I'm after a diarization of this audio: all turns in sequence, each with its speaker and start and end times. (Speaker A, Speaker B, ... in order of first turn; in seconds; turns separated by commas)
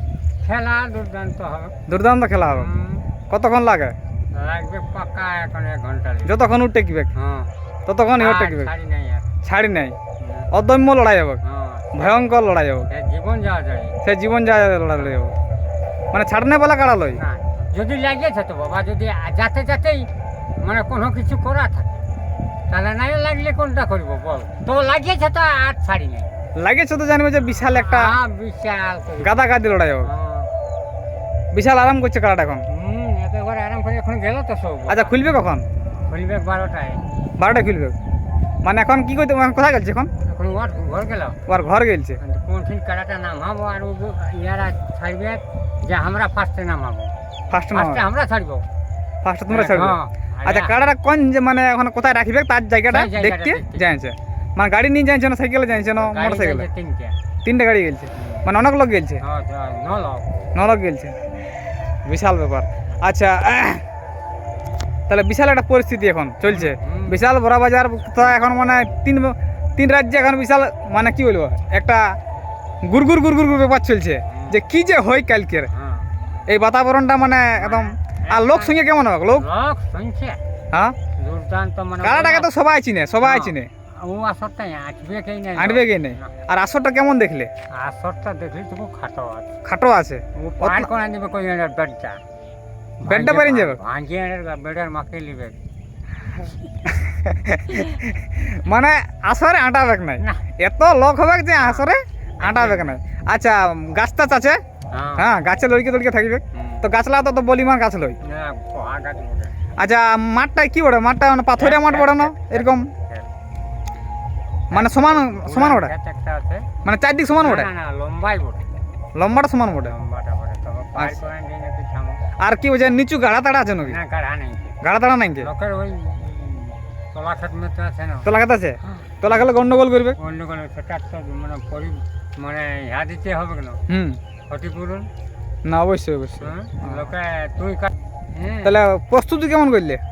Speaker A: 0.4-1.8, Speaker B: 1.9-2.7, Speaker A: 2.4-3.1, Speaker B: 3.3-3.9, Speaker A: 4.3-6.4, Speaker B: 6.2-7.1, Speaker A: 7.2-7.5, Speaker B: 7.9-8.7, Speaker A: 8.2-9.3, Speaker B: 9.4-9.9, Speaker A: 10.2-10.5, Speaker B: 10.5-11.4, Speaker A: 11.4-12.2, Speaker B: 11.9-12.9, Speaker A: 12.9-14.0, Speaker B: 14.0-15.3, Speaker B: 16.1-17.2, Speaker A: 17.1-20.1, Speaker A: 20.6-22.0, Speaker A: 22.7-26.4, Speaker B: 26.6-28.1, Speaker A: 27.4-29.4, Speaker B: 29.2-30.1, Speaker A: 30.0-30.5, Speaker B: 31.5-32.7, Speaker A: 32.7-35.2, Speaker B: 34.9-35.6, Speaker A: 36.0-37.0, Speaker B: 37.4-37.9, Speaker B: 38.6-40.1, Speaker A: 40.2-41.4, Speaker B: 41.5-42.2, Speaker A: 42.2-47.1, Speaker B: 47.5-48.0, Speaker A: 47.7-48.6, Speaker B: 49.2-56.7, Speaker A: 49.5-50.8, Speaker A: 52.9-53.9, Speaker A: 55.9-57.2, Speaker B: 57.4-59.2, Speaker A: 59.2-60.2, Speaker B: 60.5-61.2, Speaker B: 62.1-63.8, Speaker B: 65.1-72.0, Speaker A: 66.4-67.2, Speaker A: 68.2-69.0, Speaker B: 72.8-75.7, Speaker A: 74.3-74.5, Speaker A: 75.7-76.1, Speaker B: 76.5-79.5, Speaker A: 77.5-80.4, Speaker A: 81.2-82.5, Speaker B: 82.0-83.7, Speaker A: 83.2-86.3, Speaker B: 85.5-87.5, Speaker A: 87.7-89.5, Speaker B: 89.6-90.9, Speaker A: 90.3-92.2, Speaker A: 93.0-95.6, Speaker B: 93.1-93.8, Speaker B: 96.8-104.6, Speaker A: 101.6-101.9, Speaker A: 102.4-103.0, Speaker A: 104.9-105.3, Speaker B: 105.2-108.2, Speaker A: 106.5-106.9, Speaker A: 108.2-109.5, Speaker B: 109.8-112.9, Speaker A: 111.5-113.3, Speaker B: 114.7-115.9, Speaker A: 114.7-116.7, Speaker B: 116.8-117.7, Speaker A: 117.3-118.7, Speaker B: 119.1-119.9, Speaker A: 119.8-122.2, Speaker B: 121.0-121.2, Speaker B: 122.4-124.0, Speaker A: 123.8-124.8, Speaker B: 124.8-125.5, Speaker A: 125.4-128.3, Speaker B: 128.2-130.2, Speaker A: 129.2-129.5, Speaker A: 130.2-133.8, Speaker B: 133.9-134.2, Speaker A: 134.5-135.1, Speaker B: 135.6-137.1, Speaker A: 136.4-138.8, Speaker B: 138.6-140.0